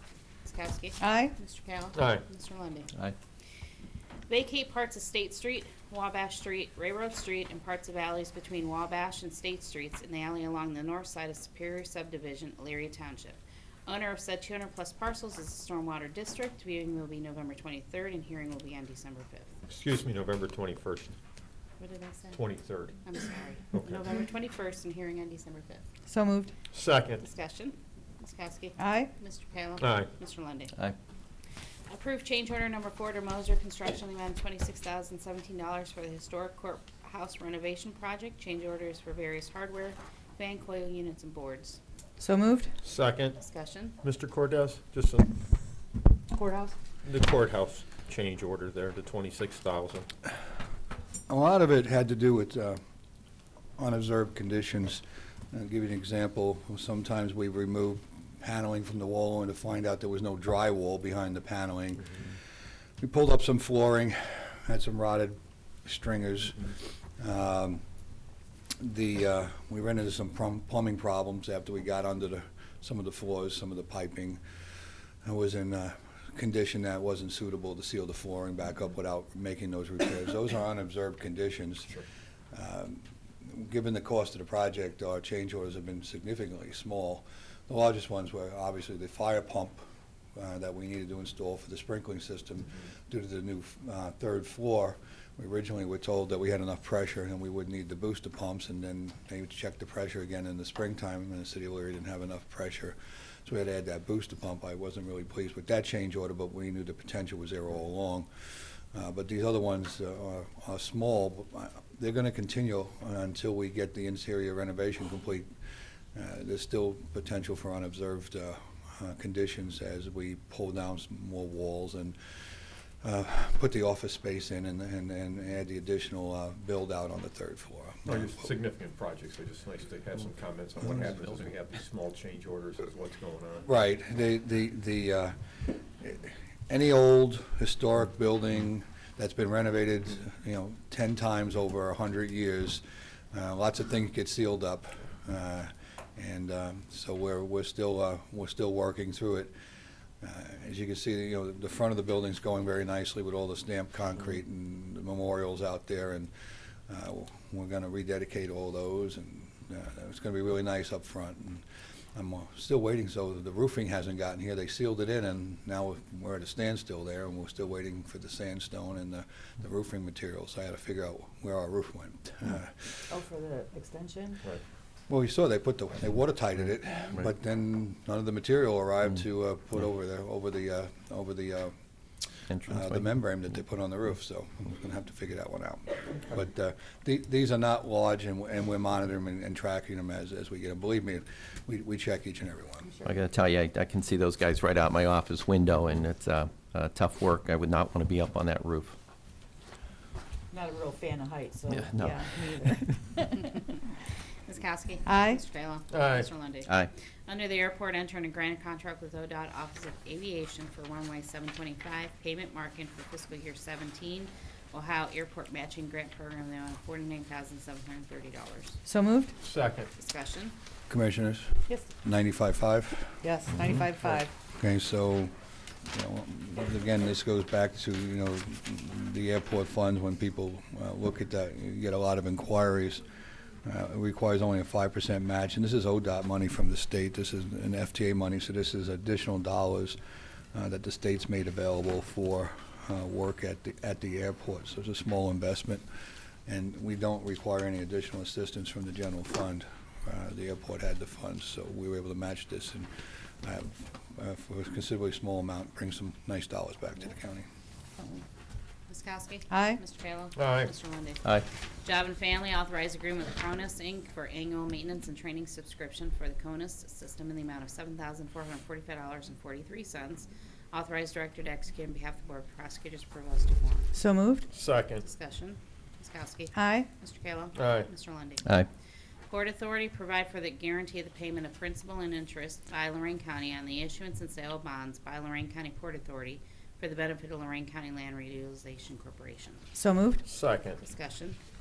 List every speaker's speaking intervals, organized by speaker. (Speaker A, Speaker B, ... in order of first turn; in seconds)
Speaker A: 0.4-2.9, 4.3-19.5, 21.8-22.4, 23.0-25.8, 27.2-30.7, 31.9-41.8, 43.4-44.0, 204.4-206.8, 207.3-218.8, 219.9-220.5, 258.9-261.3, 261.8-273.9, 275.0-278.5, 279.3-289.6, 290.8-291.4
Speaker B: 1.0-1.3, 26.1-26.5, 28.8-29.1, 42.2-42.7, 46.3-46.7, 202.1-202.8, 205.1-205.4, 218.8-219.3, 223.2-224.2, 259.5-259.8, 273.9-274.4, 276.5-276.9, 289.7-290.2
Speaker C: 1.9-2.2, 19.7-21.1, 22.3-23.0, 23.7-24.0, 26.7-27.2, 29.8-30.1, 42.8-43.4, 44.0-45.3, 47.0-50.1, 128.1-133.7, 205.9-206.3, 219.4-219.9, 260.3-260.7, 274.5-275.0, 277.5-277.9, 290.2-290.8
Speaker D: 46.5-46.7, 173.1-174.4, 192.9-193.1, 200.5-202.9, 223.3-224.3
Speaker E: 51.3-52.8, 53.8-62.4, 63.0-67.8, 68.8-74.4, 75.2-82.0, 82.5-89.8, 90.3-115.5, 116.1-122.2, 123.0-128.4, 133.6-149.5, 150.2-156.3, 156.9-173.2, 175.1-181.7, 182.5-192.9, 220.9-223.2, 224.5-225.3, 225.9-233.1, 233.6-240.0, 240.5-245.8, 246.4-252.9, 253.4-257.4
Speaker F: 182.5-182.9, 193.0-198.9, 201.7-202.5, 206.7-206.9